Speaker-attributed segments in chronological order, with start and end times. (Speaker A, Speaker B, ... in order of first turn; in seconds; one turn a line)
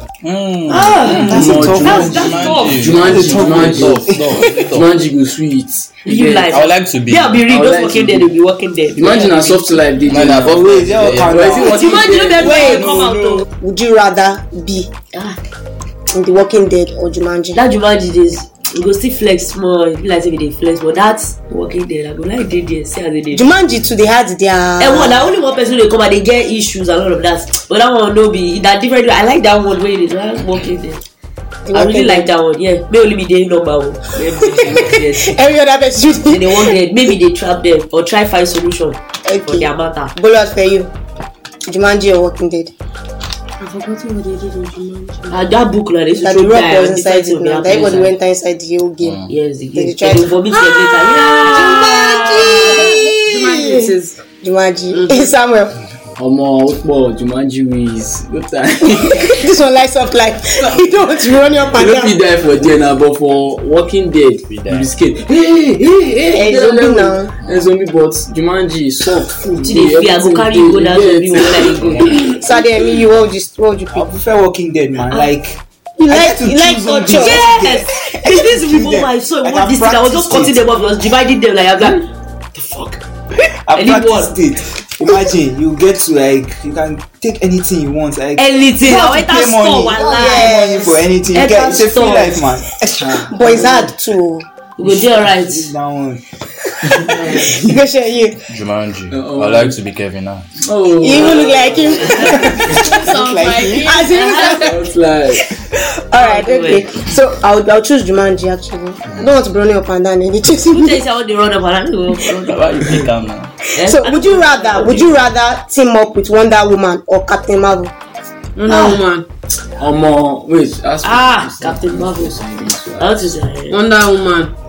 Speaker A: 0.2-4.9
Speaker B: 0.7-3.5
Speaker C: 1.1-6.5
Speaker D: 1.1-4.5
Speaker B: 6.0-9.9
Speaker A: 6.5-7.4
Speaker C: 7.5-8.3
Speaker C: 8.9-12.8
Speaker A: 10.1-11.7
Speaker D: 10.4-13.4
Speaker B: 11.7-13.5
Speaker E: 12.4-14.9
Speaker B: 15.1-15.4
Speaker E: 16.1-17.6
Speaker B: 17.5-23.5
Speaker E: 23.3-25.3
Speaker B: 24.8-31.0
Speaker E: 31.6-32.3
Speaker B: 31.7-35.4
Speaker E: 34.4-36.8
Speaker B: 36.2-40.1
Speaker E: 39.2-40.9
Speaker E: 41.6-42.7
Speaker F: 43.6-45.4
Speaker B: 45.3-48.1
Speaker E: 46.2-50.4
Speaker A: 49.0-49.3
Speaker B: 49.3-53.0
Speaker F: 50.5-54.2
Speaker E: 51.6-55.8
Speaker F: 54.9-55.3
Speaker C: 56.2-59.5
Speaker E: 59.0-62.2
Speaker C: 61.7-72.6
Speaker A: 64.5-64.9
Speaker E: 66.3-67.3
Speaker A: 67.4-67.7
Speaker B: 69.6-72.4
Speaker A: 71.6-72.4
Speaker E: 72.4-74.1
Speaker D: 73.9-80.8
Speaker E: 76.0-77.4
Speaker B: 77.2-83.0
Speaker D: 83.7-93.3
Speaker B: 83.7-84.4
Speaker B: 88.4-90.8
Speaker E: 90.2-91.0
Speaker B: 91.3-92.4
Speaker C: 93.0-93.4
Speaker E: 93.3-94.5
Speaker B: 94.8-95.7
Speaker D: 94.9-96.2
Speaker D: 96.9-97.4
Speaker E: 97.2-98.4
Speaker A: 98.5-100.6
Speaker C: 99.1-99.8
Speaker C: 100.6-102.8
Speaker E: 101.0-103.0
Speaker B: 102.0-102.5
Speaker F: 102.5-104.8
Speaker D: 102.7-103.9
Speaker E: 103.8-104.8
Speaker B: 104.1-104.6
Speaker C: 104.5-105.5
Speaker E: 105.4-111.0
Speaker B: 106.2-106.9
Speaker B: 110.7-112.8
Speaker A: 112.4-113.5
Speaker B: 113.8-115.2
Speaker E: 113.8-117.9
Speaker F: 118.6-119.3
Speaker B: 118.7-119.0
Speaker C: 119.8-123.4
Speaker B: 121.0-123.8
Speaker F: 123.7-124.5